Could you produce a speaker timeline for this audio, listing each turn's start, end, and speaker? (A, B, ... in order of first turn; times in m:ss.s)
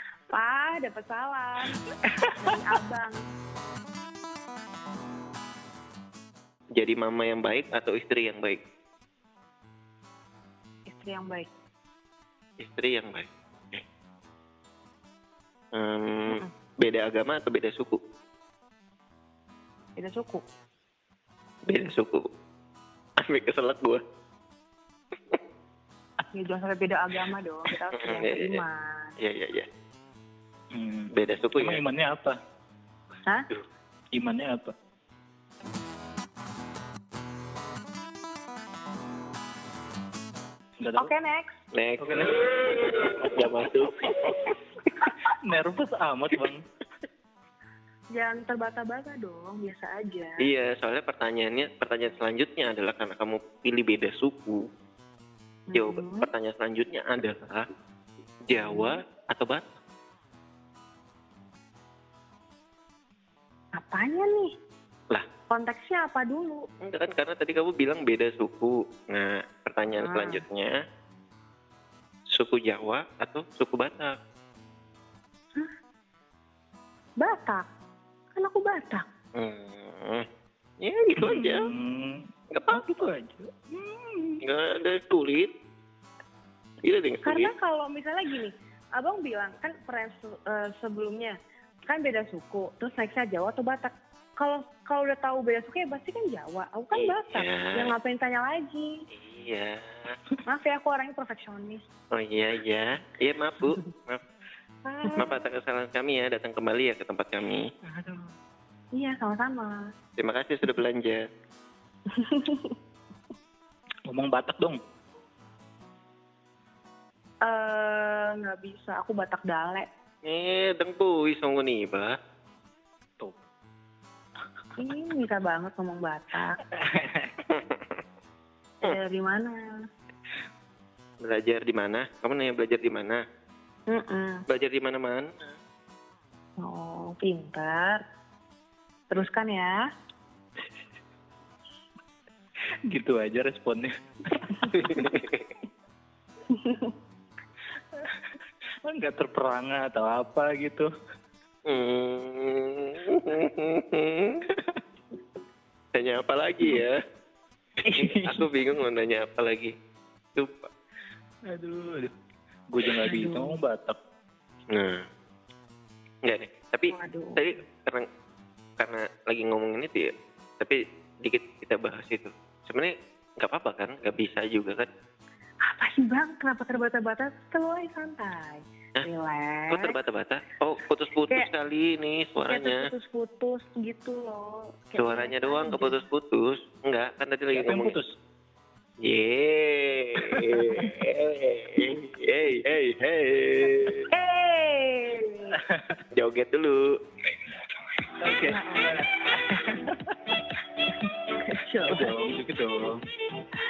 0:00.3-0:03.2 A
0:02.1-0:02.3 B
0:06.8-0:08.6 C
0:10.9-0:11.5 A
0:12.6-0:13.8 C
0:15.7-0:18.0 C
0:20.0-0:20.4 A
0:21.7-0:22.3 C
0:23.2-0:24.0 C
0:26.3-0:29.1 A
0:27.9-0:28.6 C
0:29.2-0:29.7 C
0:30.7-0:32.4 B
0:31.1-0:31.8 C
0:34.2-0:34.7 B
0:40.8-0:41.1 B
0:41.0-0:41.6 A
0:41.7-0:44.6 C
0:42.0-0:42.4 B
0:45.4-0:46.6 B
0:48.1-0:50.4 A
0:50.4-0:54.7 C
0:55.7-0:56.3 A
0:55.7-0:57.7 C
0:58.4-0:59.7 C
0:58.6-0:59.0 A
1:03.8-1:04.5 A
1:05.5-1:06.7 A
1:06.8-1:10.8 C
1:10.0-1:10.4 A
1:12.3-1:14.2 C
1:17.2-1:17.6 A
1:18.4-1:19.0 A
1:19.4-1:20.3 C
1:20.8-1:21.6 C
1:21.2-1:24.4 B
1:22.5-1:22.9 C
1:24.4-1:25.5 C
1:26.8-1:27.5 C
1:27.2-1:31.4 A
1:31.9-1:38.9 A
1:36.9-1:37.9 C
1:39.1-1:40.2 C
1:40.5-1:41.8 A
1:42.1-1:44.2 C
1:44.9-1:45.4 A
1:45.2-1:47.7 C
1:47.9-1:48.3 B
1:49.0-1:49.9 A
1:50.2-1:51.2 C
1:52.1-1:52.8 A
1:54.1-1:54.8 B
1:57.4-1:59.9 A
2:00.2-2:02.2 C
2:04.8-2:06.6 A
2:06.7-2:07.3 B
2:07.5-2:08.0 C
2:08.8-2:09.6 A
2:11.2-2:13.2 C
2:13.9-2:14.4 A
2:14.5-2:15.6 C
2:16.6-2:18.0 A
2:19.1-2:19.8 A
2:22.9-2:25.1 B
2:24.6-2:25.2 A
2:24.7-2:25.5 C
2:26.5-2:26.9 A
2:28.0-2:28.3 B
2:28.8-2:30.9 B
2:31.7-2:34.4 C
2:34.5-2:34.8 B
2:35.9-2:37.0 C
2:37.8-2:38.5 B
2:37.9-2:39.7 C
2:40.4-2:40.7 C
2:41.5-2:42.1 B
2:42.7-2:44.0 B
2:43.1-2:43.6 A
2:44.7-2:45.1 C
2:46.2-2:48.1 C
2:46.9-2:47.4 A
2:48.8-2:54.9 C
2:55.6-3:00.0 A
2:59.7-3:02.9 C
3:02.5-3:06.0 A
3:05.0-3:08.0 C
3:07.5-3:08.2 B
3:09.0-3:14.1 C
3:10.3-3:10.9 B
3:14.1-3:15.6 A
3:15.6-3:16.0 B
3:16.1-3:17.0 C
3:18.2-3:20.4 B
3:18.4-3:19.1 A
3:21.0-3:22.3 A
3:21.9-3:23.0 B